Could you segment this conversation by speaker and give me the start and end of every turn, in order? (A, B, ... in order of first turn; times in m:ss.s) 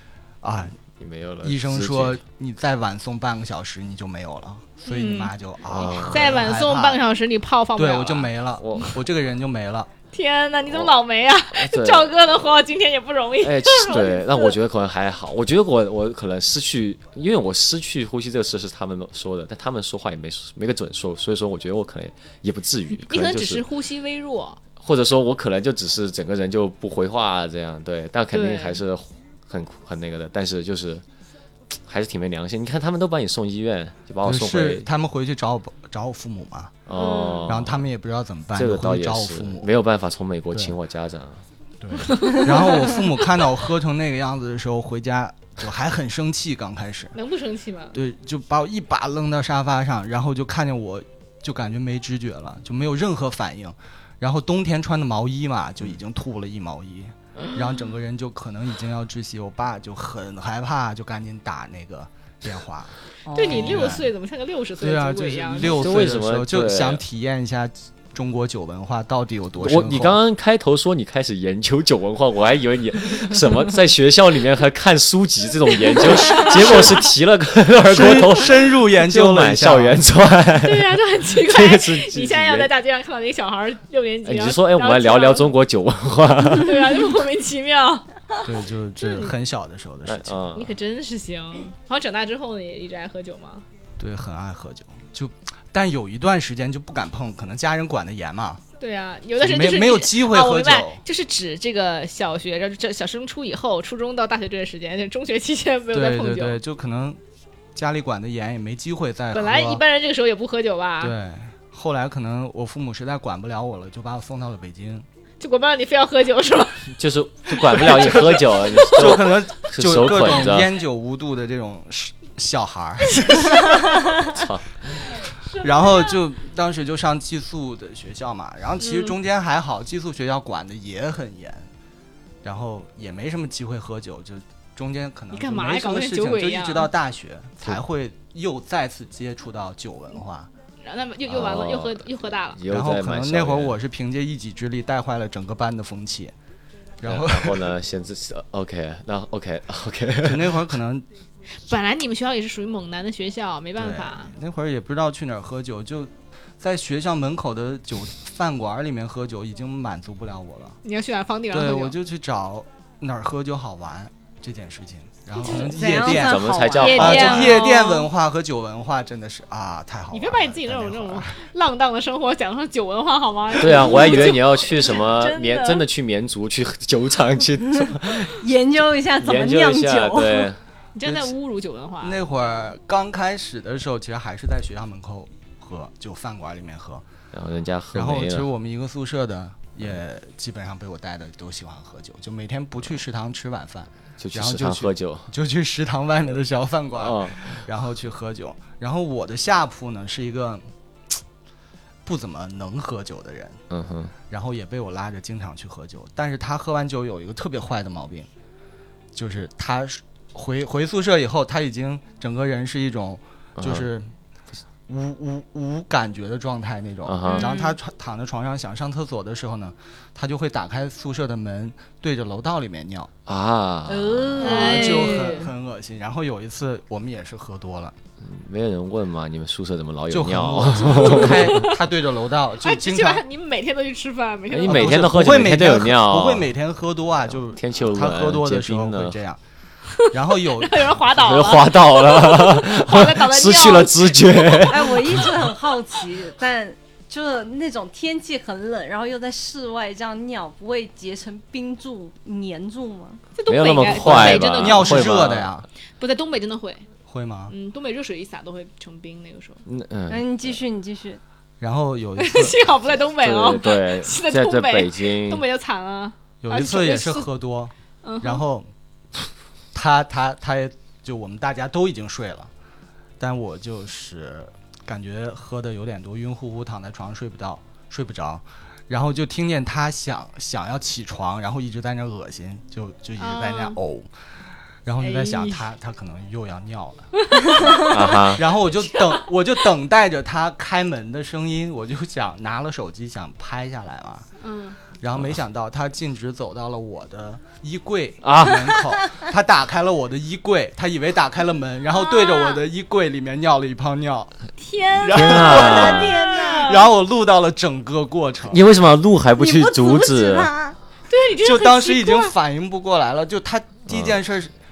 0:00.4-0:00.7 A
0:01.0-0:02.2 B
0:01.4-0:07.0 A
0:04.9-0:08.9 C
0:05.6-0:06.4 B
0:07.7-0:09.9 A
0:08.6-0:08.9 B
0:10.1-0:14.6 C
0:10.7-0:10.9 B
0:11.5-0:12.2 B
0:13.4-0:23.6 B
0:23.0-0:24.6 C
0:24.8-0:31.0 B
0:28.3-0:28.8 C
0:31.9-0:34.8 B
0:34.2-0:36.8 A
0:36.8-0:37.9 B
0:36.9-0:37.5 C
0:37.5-0:39.7 A
0:38.5-0:41.4 B
0:41.8-0:47.1 A
0:42.1-0:42.5 C
0:47.1-0:48.0 C
0:47.9-1:04.1 A
1:03.3-1:03.9 D
1:03.3-1:06.0 C
1:04.8-1:10.2 A
1:05.6-1:07.0 B
1:09.6-1:22.7 B
1:15.9-1:17.1 C
1:16.5-1:16.8 A
1:17.8-1:20.0 A
1:20.6-1:25.5 C
1:24.2-1:27.0 B
1:26.6-1:28.0 C
1:28.4-1:30.5 A
1:29.0-1:29.3 C
1:30.0-1:30.7 B
1:30.5-1:33.6 C
1:34.0-1:38.6 A
1:38.8-1:46.6 C
1:39.4-1:41.0 A
1:45.9-1:47.2 A
1:47.7-1:49.8 A
1:49.3-1:51.1 C
1:51.0-1:55.0 A
1:55.4-1:56.9 C
1:57.0-2:00.7 B
1:57.5-1:57.9 C
1:57.8-2:04.4 A
2:04.3-2:04.8 B
2:05.5-2:06.2 C
2:05.6-2:11.7 A
2:08.8-2:09.1 C
2:12.4-2:20.5 A
2:15.3-2:16.9 C
2:20.8-2:22.6 C
2:21.3-2:23.8 B
2:22.7-2:26.3 A
2:27.0-2:27.7 A
2:27.0-2:30.7 B
2:30.2-2:31.0 A
2:31.6-2:34.3 C
2:33.8-2:40.8 A
2:40.8-2:42.0 C
2:41.5-2:51.3 A
2:45.4-2:47.7 D
2:45.4-2:45.7 C
2:45.8-2:47.6 B
2:46.8-2:48.1 C
2:50.1-2:55.8 C
2:53.6-2:58.4 B
2:57.9-3:00.5 D
2:59.2-3:00.6 B
3:00.9-3:02.2 C
3:01.0-3:01.3 A
3:02.0-3:07.0 A
3:07.3-3:08.5 B
3:07.9-3:20.6 A
3:14.2-3:15.3 B
3:16.9-3:17.6 B
3:22.0-3:23.6 A
3:23.7-3:24.1 B
3:24.3-3:28.3 A
3:29.1-3:34.1 A
3:33.6-3:33.9 B
3:34.9-3:43.1 A
3:37.0-3:37.5 B
3:37.3-3:37.6 C
3:43.3-3:44.4 B
3:43.9-3:45.5 D
3:44.4-3:45.5 C
3:44.4-3:48.0 A
3:48.2-3:51.6 B
3:50.1-3:53.2 A
3:51.2-3:51.7 C
3:52.6-3:55.0 C
3:54.5-3:56.5 B
3:54.7-3:59.4 A
3:57.3-3:59.2 B
3:59.9-4:04.9 C
4:00.1-4:01.0 A
4:01.1-4:05.5 B
4:04.6-4:13.2 D
4:13.3-4:15.2 C
4:13.5-4:15.6 B
4:13.9-4:15.6 A
4:16.0-4:16.8 C
4:17.1-4:17.5 A
4:17.5-4:19.6 C
4:19.6-4:20.3 B
4:20.1-4:21.2 D
4:21.6-4:22.6 A
4:22.2-4:27.3 C
4:23.2-4:25.4 B
4:26.4-4:28.7 A
4:28.0-4:28.4 C
4:29.7-4:32.5 A
4:33.2-4:44.1 A
4:43.2-4:43.8 C
4:44.8-4:54.2 A
4:45.0-4:45.6 C
4:47.2-4:48.2 C
4:47.8-4:48.5 B
4:48.7-4:49.2 C
4:54.4-4:54.8 C
4:55.0-5:04.3 A
4:58.2-4:58.8 B
5:01.9-5:02.6 C
5:04.6-5:06.9 C
5:05.0-5:08.6 A
5:05.1-5:06.2 B
5:05.5-5:06.9 D
5:08.5-5:10.5 B
5:09.4-5:10.8 D
5:11.1-5:12.3 C
5:11.4-5:14.5 A
5:13.9-5:14.2 B